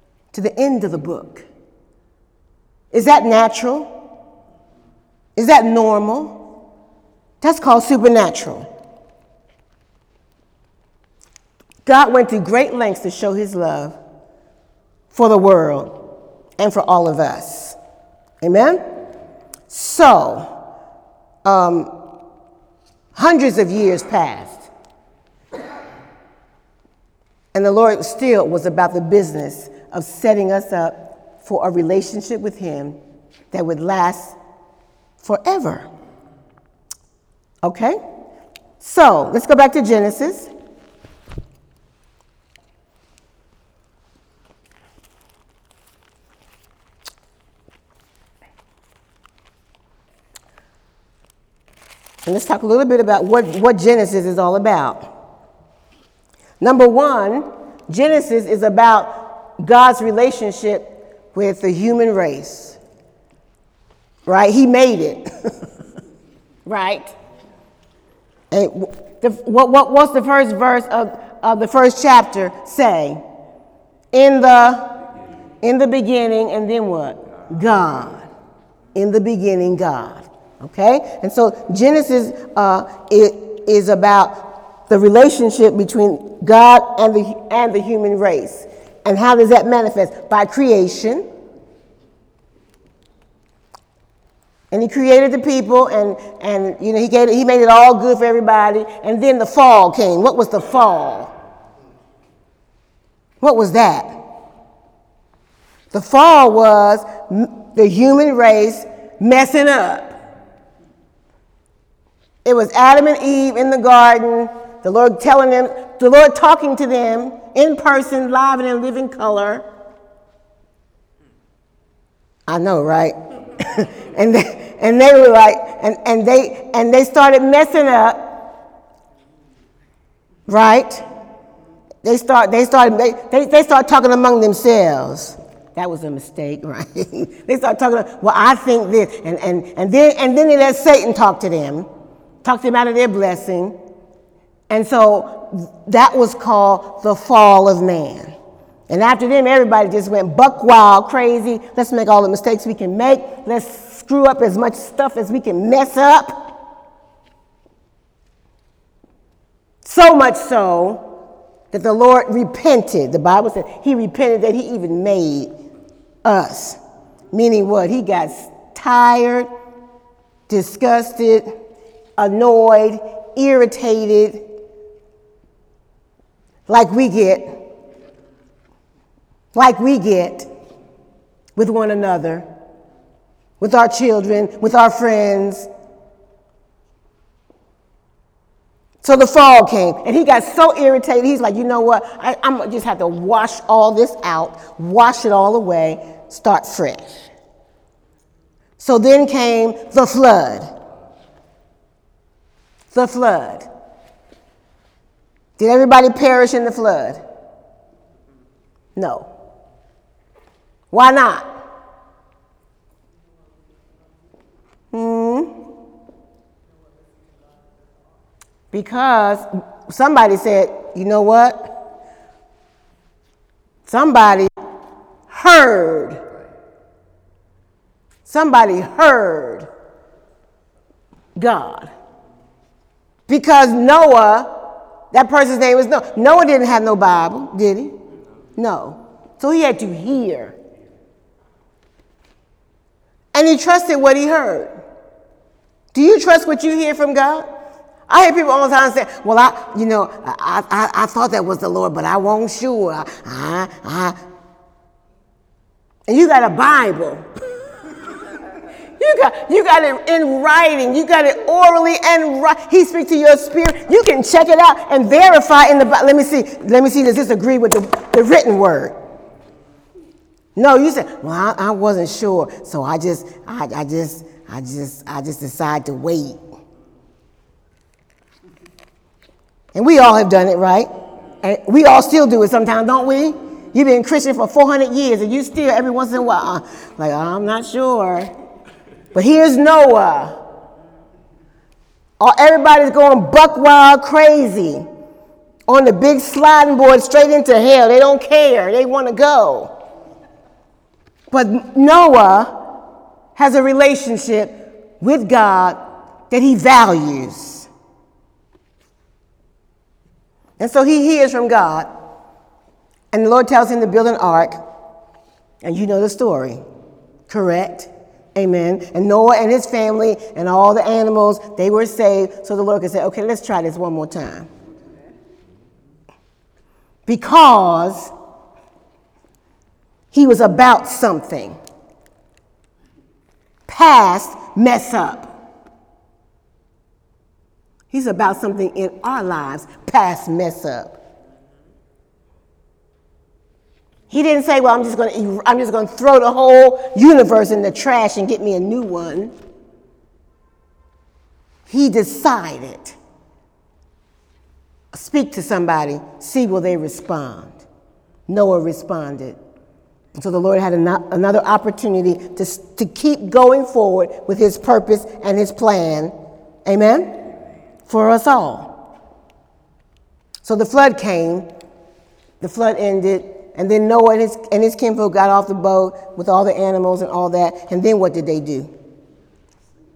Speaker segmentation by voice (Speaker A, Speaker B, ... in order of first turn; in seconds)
Speaker A: 0.3-1.4, 2.9-3.9, 5.3-6.4, 7.4-8.7, 11.8-13.9, 15.1-16.0, 16.6-17.8, 18.4-18.8, 19.7-20.5, 21.4-21.9, 23.1-24.7, 27.5-33.0, 33.5-34.4, 35.2-35.9, 37.6-38.0, 38.8-40.5, 52.2-55.1, 56.6-62.8, 64.3-65.5, 66.7-67.1, 68.5-73.2, 74.1-74.9, 75.6-78.2, 78.9-91.2, 94.7-101.3, 103.4-104.1, 105.9-110.2, 112.4-119.6, 122.5-128.4, 130.5-131.0, 132.0-141.9, 142.4-143.8, 144.7-148.3, 148.9-156.5, 159.8-161.1, 161.7-165.5, 166.2-166.8, 167.3-169.5, 170.5-171.5, 172.2-174.5, 176.7-177.6, 179.5-180.5, 181.6-182.4, 183.6-185.7, 189.0-197.0, 198.8-200.7, 202.9-203.7, 205.6-207.2, 208.9-209.3, 210.9-211.6, 214.9-215.6, 218.7-221.7, 223.8-224.5, 225.3-226.2, 228.2-229.7, 231.3-231.9, 233.3-237.9, 238.6-240.6, 243.3-244.8, 245.9-247.5, 248.1-254.2, 256.1-257.2, 259.0-268.9, 270.6-276.4, 279.7-280.9, 281.4-288.3, 289.1-290.4, 292.2-294.8, 295.7-299.7, 301.3-302.7, 303.4-305.8, 306.3-307.7, 310.6-311.9, 313.1-314.6, 315.6-316.6, 317.3-324.5, 327.1-328.1, 330.1-331.6, 333.7-335.3, 337.9-341.0, 344.1-349.3, 351.7-352.9, 354.9-357.6, 358.3-359.4, 360.1-366.1, 366.6-367.2, 367.9-368.7, 370.4-371.5, 372.4-378.7